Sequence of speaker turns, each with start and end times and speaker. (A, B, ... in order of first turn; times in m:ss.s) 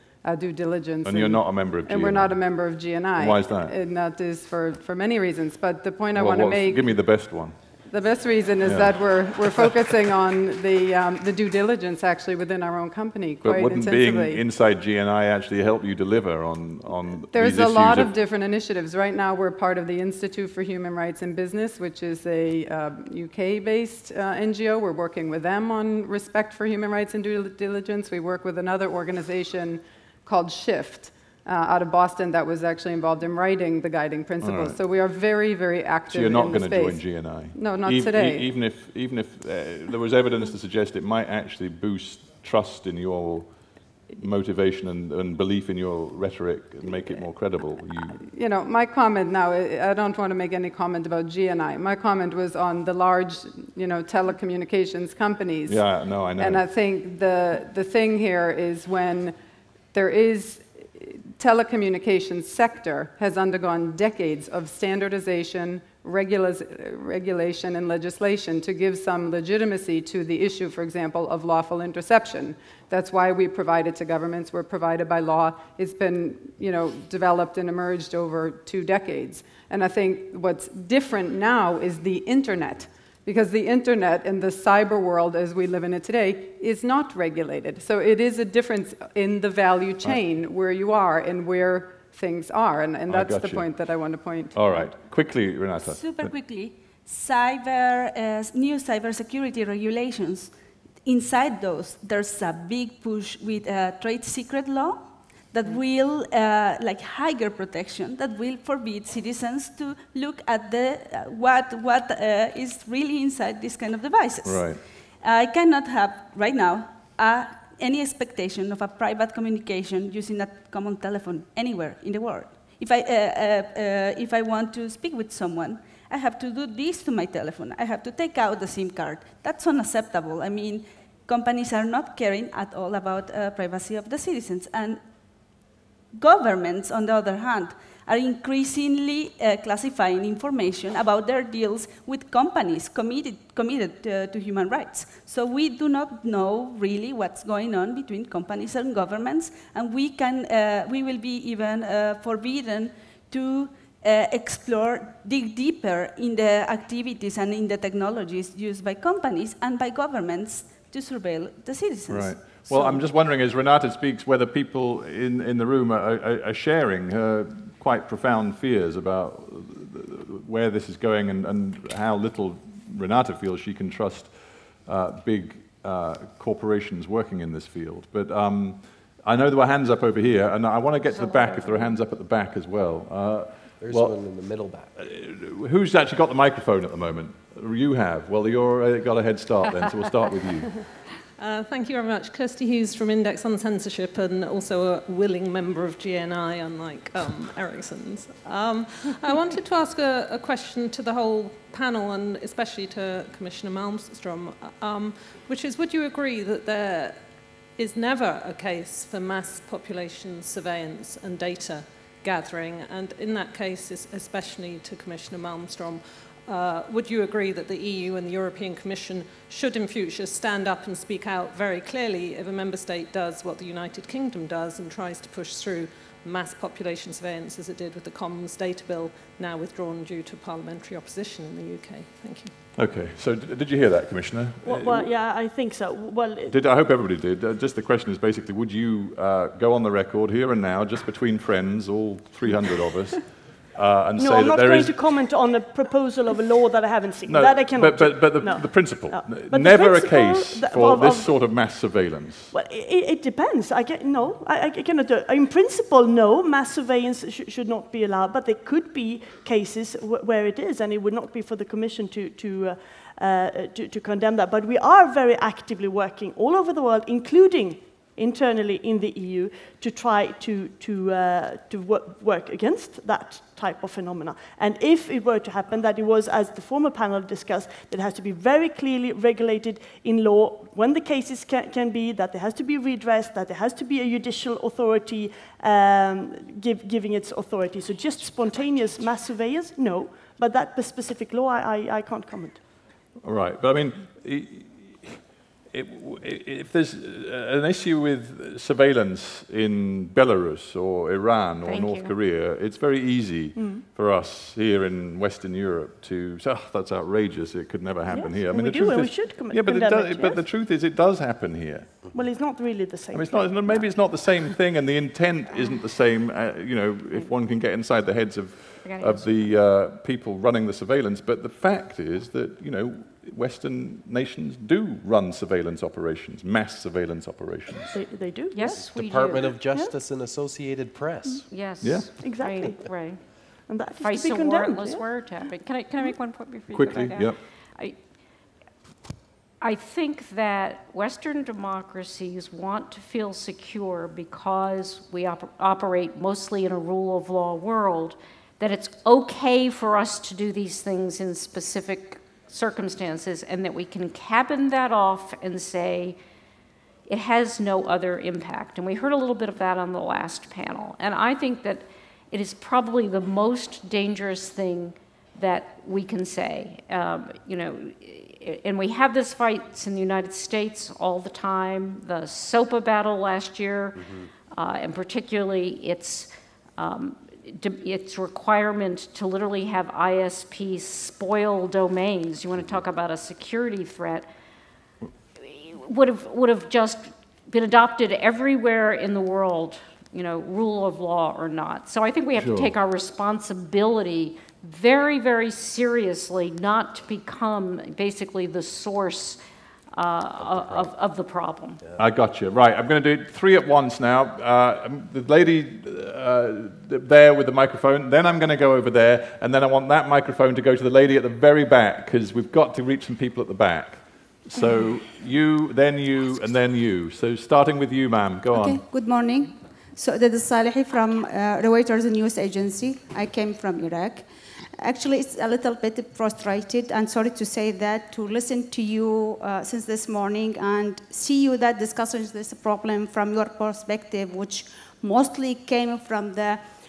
0:00.2-0:06.9 A
0:01.0-0:02.4 B
0:03.2-0:03.7 B
0:06.1-0:07.5 B
0:07.9-0:14.4 A
0:08.6-0:08.9 B
0:13.4-0:18.1 B
0:17.3-0:37.0 A
0:34.4-0:34.8 B
0:36.1-0:43.5 B
0:37.5-0:38.5 A
0:44.2-0:48.2 B
0:48.2-0:55.8 A
0:55.7-0:56.6 B
0:56.4-0:59.3 A
0:59.9-1:34.9 A
1:33.1-1:33.7 B
1:34.5-1:36.3 B
1:35.8-1:40.5 C
1:41.0-2:15.0 C
1:54.4-1:54.8 B
2:16.1-2:43.0 C
2:42.1-2:54.3 B
2:54.8-3:04.1 B
3:01.1-3:02.0 D
3:03.8-3:04.9 E
3:05.0-3:10.8 B
3:11.4-3:52.5 F
3:52.8-3:55.1 B
3:54.6-3:56.5 G
3:56.5-4:04.9 B
4:04.2-4:11.3 G
4:07.3-4:12.5 B
4:12.5-4:52.6 G
4:53.2-4:55.2 B
4:55.7-5:11.9 B
5:01.6-5:02.1 D
5:03.5-5:03.8 G
5:08.1-5:10.4 G
5:12.1-5:14.1 G
5:13.1-5:27.9 B
5:18.8-5:19.5 D
5:27.9-5:28.9 G
5:28.5-5:29.6 D
5:28.7-5:31.4 E
5:31.5-5:33.3 D
5:31.8-5:32.1 B
5:32.2-5:35.3 G
5:34.0-5:37.9 D
5:36.7-5:37.4 B
5:39.6-5:56.2 D
5:57.1-6:14.0 D
6:14.0-6:14.3 E
6:14.5-6:24.3 D
6:25.4-6:39.4 D
6:32.4-6:32.7 B
6:39.9-6:41.8 D
6:40.4-6:40.9 E
6:42.0-6:58.8 B
6:58.5-7:04.3 H
7:04.8-7:16.6 H